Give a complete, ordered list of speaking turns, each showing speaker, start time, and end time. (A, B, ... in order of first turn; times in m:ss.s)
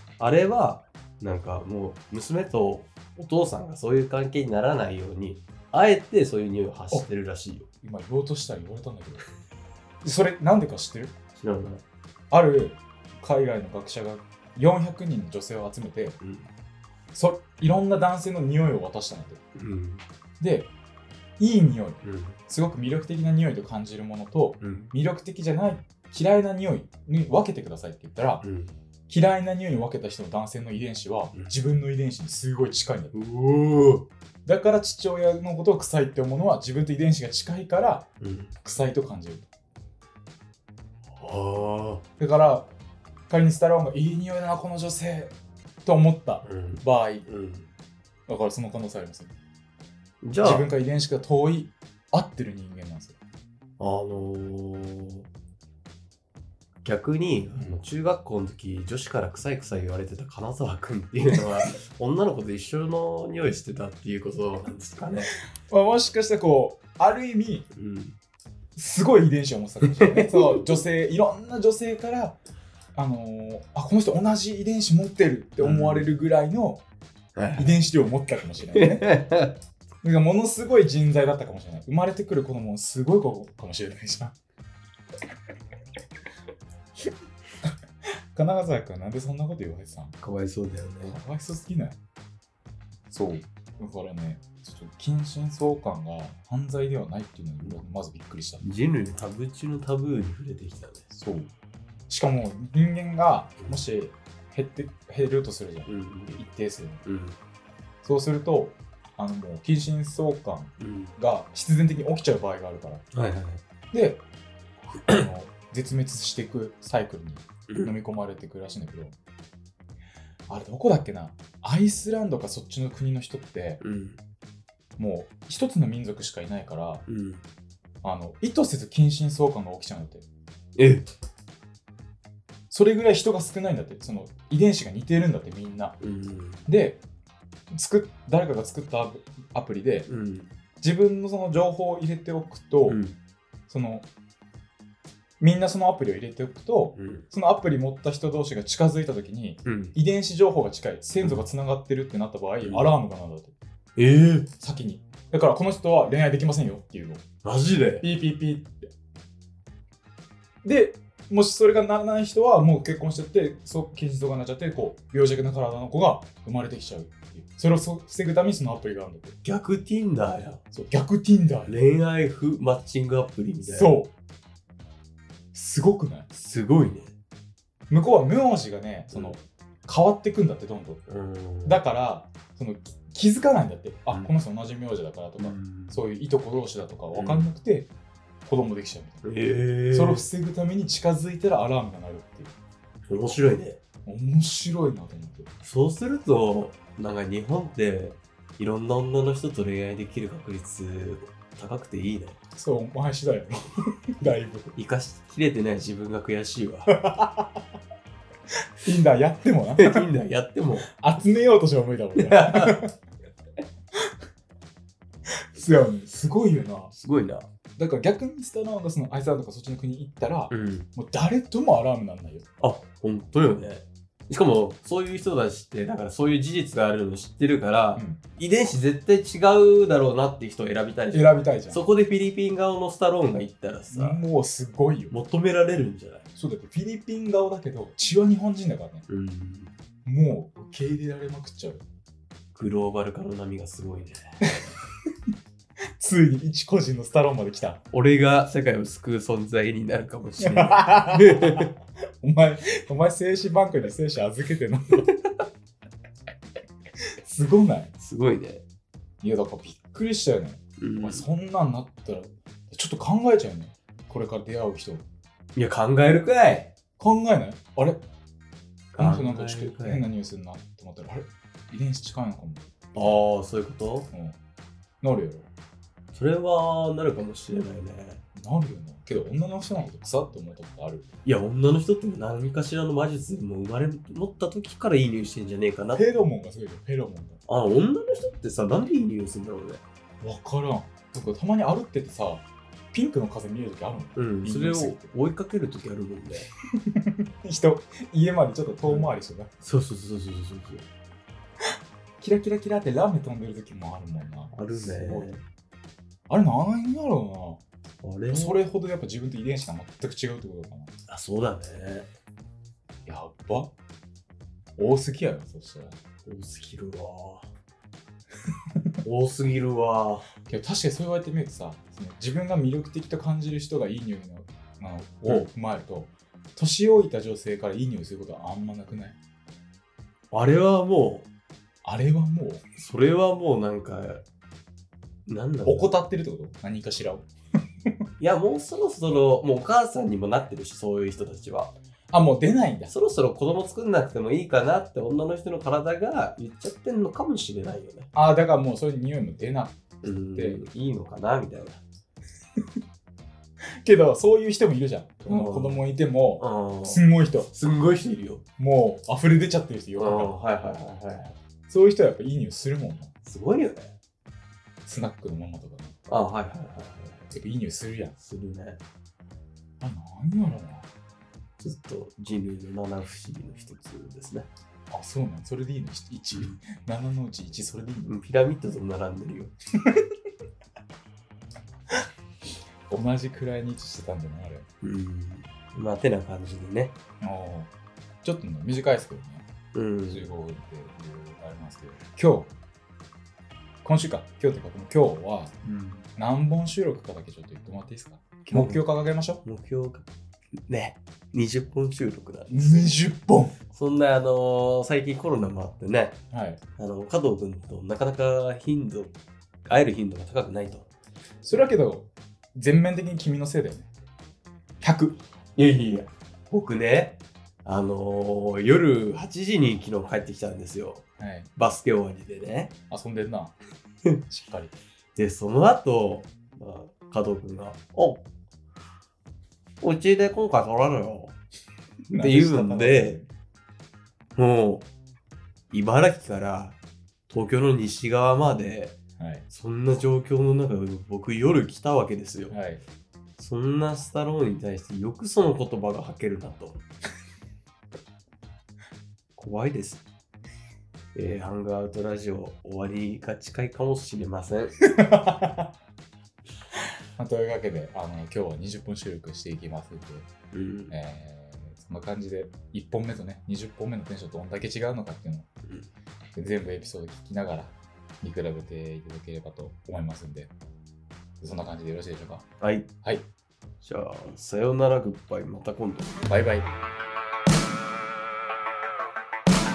0:00.2-0:07.7 A
0:07.8-0:09.3 B
0:10.0-0:11.1 B
0:11.4-0:11.8 A
0:12.3-0:16.2 B
0:16.2-0:16.5 A
0:17.1-0:19.4 B
0:19.5-0:20.0 A
0:20.4-0:20.7 B
0:21.4-0:28.4 B
0:22.0-0:22.4 A
0:24.6-0:24.9 A
0:28.4-0:28.7 A
0:29.1-0:33.1 B
0:31.3-0:31.6 A
0:33.1-0:34.1 A
0:34.4-0:38.1 B
0:38.2-0:38.5 A
0:38.6-0:39.4 B
0:41.2-0:42.0 A
0:42.2-0:42.7 B
0:43.3-0:47.3 B
0:46.4-0:47.7 A
0:48.3-0:49.3 B
0:50.2-0:50.7 A
0:50.4-0:53.2 B
0:53.8-0:55.2 A
0:56.8-1:05.3 A
0:57.5-0:57.8 B
1:05.7-1:07.7 B
1:07.7-1:08.1 A
1:08.8-1:12.4 B
1:09.9-1:10.7 A
1:12.9-1:16.8 B
1:15.6-1:16.1 A
1:17.4-1:17.8 A
1:17.6-1:19.1 B
1:18.7-1:19.6 A
1:20.0-1:24.3 B
1:28.3-1:30.2 B
1:30.2-1:31.2 A
1:31.0-1:32.0 B
1:33.1-1:38.6 B
1:38.6-1:41.0 A
1:41.1-1:41.5 B
1:42.1-1:47.0 B
1:43.6-1:43.8 A
1:45.8-1:46.4 A
1:47.0-1:47.4 A
1:48.0-1:53.1 B
1:50.8-1:51.1 A
1:53.1-1:53.6 A
1:53.9-1:54.2 B
1:55.0-1:59.2 B
1:57.7-1:57.9 A
2:00.5-2:03.8 B
2:03.8-2:04.2 A
2:05.0-2:07.0 B
2:07.0-2:07.4 A
2:08.0-2:10.2 B
2:10.8-2:11.1 A
2:12.7-2:16.0 B
2:16.0-2:16.7 A
2:16.6-2:17.0 B
2:17.7-2:20.1 B
2:20.0-2:20.5 A
2:20.8-2:23.0 B
2:22.9-2:23.2 A
2:23.7-2:24.1 B
2:25.4-2:33.5 B
2:26.9-2:27.3 A
2:29.6-2:30.0 A
2:31.2-2:31.5 A
2:32.6-2:32.9 A
2:34.0-2:34.5 A
2:34.6-2:37.2 B
2:37.4-2:38.1 A
2:38.0-2:38.8 B
2:40.6-2:49.4 B
2:49.4-2:50.6 A
2:50.7-2:51.8 B
2:51.7-2:54.0 A
2:53.7-2:54.1 B
2:55.5-2:56.3 B
2:56.3-2:57.1 A
2:57.9-3:01.0 B
2:59.1-2:59.4 A
3:01.0-3:01.8 A
3:01.6-3:07.9 B
3:05.4-3:06.0 A
3:07.1-3:07.5 A
3:08.4-3:09.2 B
3:09.2-3:10.3 A
3:09.9-3:12.5 B
3:13.1-3:13.8 A
3:14.0-3:15.5 B
3:15.6-3:22.4 A
3:22.5-3:24.7 B
3:24.7-3:26.9 A
3:26.9-3:27.6 B
3:28.8-3:30.1 B
3:29.7-3:30.9 A
3:31.0-3:32.9 B
3:32.2-3:32.8 A
3:35.5-3:36.9 B
3:36.9-3:37.5 A
3:37.8-3:42.4 B
3:40.5-3:40.9 A
3:42.6-3:54.2 A
3:47.9-3:48.2 B
3:51.1-3:51.8 B
3:53.9-3:55.1 B
3:55.1-3:56.2 A
3:56.4-3:59.0 B
3:59.1-3:59.7 A
4:00.0-4:01.8 B
4:02.5-4:04.7 A
4:06.0-4:07.8 B
4:07.9-4:11.7 A
4:10.4-4:11.7 B
4:12.2-4:15.1 B
4:17.2-4:17.9 B
4:18.0-4:18.6 A
4:19.2-4:25.0 B
4:20.8-4:21.2 A
4:25.6-4:26.7 A
4:27.0-4:28.0 B
4:28.9-4:30.0 A
4:29.0-4:33.2 B
4:32.9-4:34.1 A
4:34.1-4:34.4 B
4:35.0-4:35.5 B
4:36.1-4:38.2 A
4:38.4-4:41.1 B
4:41.2-4:46.1 A
4:45.9-4:47.4 B
4:47.5-4:49.8 A
4:50.2-4:55.2 B
4:54.2-4:56.5 A
4:56.9-4:59.5 B
4:58.8-5:00.9 A
5:02.2-5:05.3 B
5:04.5-5:05.4 A
5:06.3-5:07.6 B
5:08.0-5:08.6 A
5:08.3-5:10.9 B
5:11.1-5:12.1 A
5:13.0-5:13.7 B
5:14.8-5:16.0 B
5:16.2-5:17.5 A
5:19.0-5:20.3 A
5:20.4-5:29.2 B
5:30.3-5:31.3 A
5:31.8-5:32.6 B
5:32.8-5:34.2 A
5:35.2-5:35.9 A
5:35.6-5:37.3 B
5:38.2-5:41.7 A
5:42.1-5:42.9 B
5:42.9-5:48.1 A
5:48.1-5:50.6 B
5:50.0-5:51.8 A
5:53.8-5:57.5 B
5:55.2-5:55.8 A
5:56.4-5:58.4 A
5:58.6-6:00.4 B
6:00.0-6:01.4 A
6:01.7-6:03.1 B
6:03.2-6:03.9 A
6:04.8-6:06.0 B
6:06.0-6:07.3 A
6:07.3-6:08.1 B
6:08.2-6:08.8 A
6:09.8-6:10.9 B
6:11.6-6:14.5 A
6:14.9-6:18.2 B
6:16.3-6:16.6 A
6:18.0-6:19.5 A
6:22.9-6:24.7 B
6:24.8-6:26.9 A
6:27.2-6:27.7 B
6:28.2-6:29.4 B
6:29.7-6:30.3 A
6:30.1-6:32.5 B
6:33.8-6:39.4 B
6:35.7-6:36.0 A
6:38.5-6:38.8 A
6:39.4-6:40.1 A
6:40.7-6:43.0 A
6:42.5-6:43.6 B
6:43.7-6:46.2 A
6:46.3-6:46.6 B
6:46.8-6:50.9 A
6:51.4-6:53.9 B
6:54.8-6:55.2 B
6:55.6-7:01.0 A
7:01.2-7:01.5 B
7:01.6-7:02.7 A
7:02.9-7:03.5 B
7:04.3-7:04.7 B
7:05.1-7:08.2 A
7:09.8-7:11.3 A
7:12.1-7:13.2 A
7:12.1-7:13.3 B
7:14.4-7:14.8 A
7:15.7-7:16.8 A
7:17.3-7:18.9 A
7:19.5-7:22.6 A
7:22.5-7:22.8 B
7:23.4-7:26.8 A
7:29.4-7:30.0 A
7:31.1-7:34.8 A
7:34.9-7:35.7 B
7:37.2-7:40.3 B
7:40.5-7:41.0 A
7:40.9-7:45.5 B
7:46.4-7:50.5 B
7:51.4-7:52.5 B
7:52.6-7:52.9 A
7:53.8-7:56.2 A
7:56.2-7:56.7 B